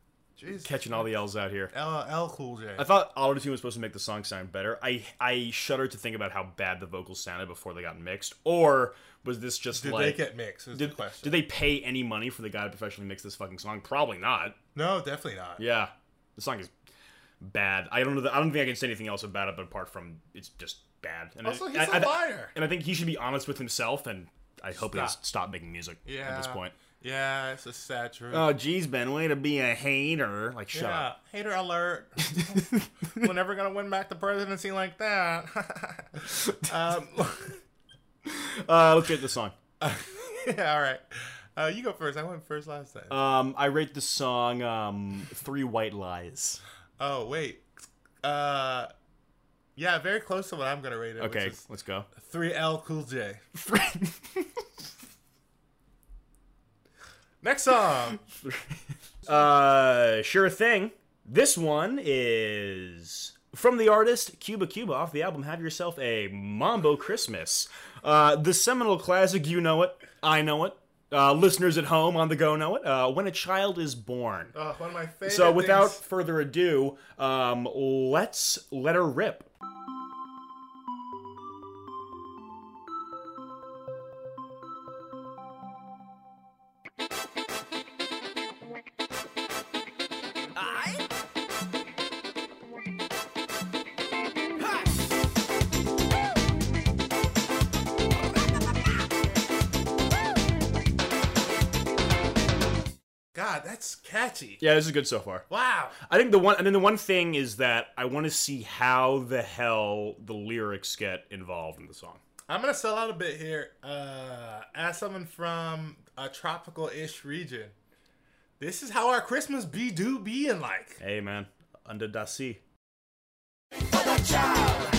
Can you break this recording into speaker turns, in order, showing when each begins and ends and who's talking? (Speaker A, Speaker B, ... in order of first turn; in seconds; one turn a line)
Speaker A: 0.4-1.1
Speaker B: 0.6-1.7
Speaker A: 1.7-2.9
Speaker B: 2.8-14.6
Speaker A: 9.7-11.4
Speaker A: 14.8-15.7
Speaker B: 15.6-16.7
Speaker B: 17.4-26.7
Speaker A: 21.4-22.5
Speaker A: 24.8-25.2
Speaker A: 26.1-28.5
Speaker B: 28.3-31.1
Speaker A: 30.7-37.6
Speaker B: 32.4-32.9
Speaker B: 38.2-39.5
Speaker A: 39.8-41.0
Speaker A: 41.5-43.2
Speaker B: 43.1-46.6
Speaker A: 47.0-47.6
Speaker A: 48.2-48.9
Speaker A: 49.8-51.6
Speaker B: 51.2-52.1
Speaker A: 52.1-53.4
Speaker B: 53.5-54.6
Speaker A: 57.4-58.2
Speaker B: 58.4-74.5
Speaker A: 74.5-76.0
Speaker B: 75.2-79.5
Speaker A: 103.3-104.6
Speaker B: 104.6-105.5
Speaker A: 105.5-106.0
Speaker B: 106.0-112.2
Speaker A: 112.5-117.7
Speaker A: 118.6-121.0
Speaker B: 121.0-122.6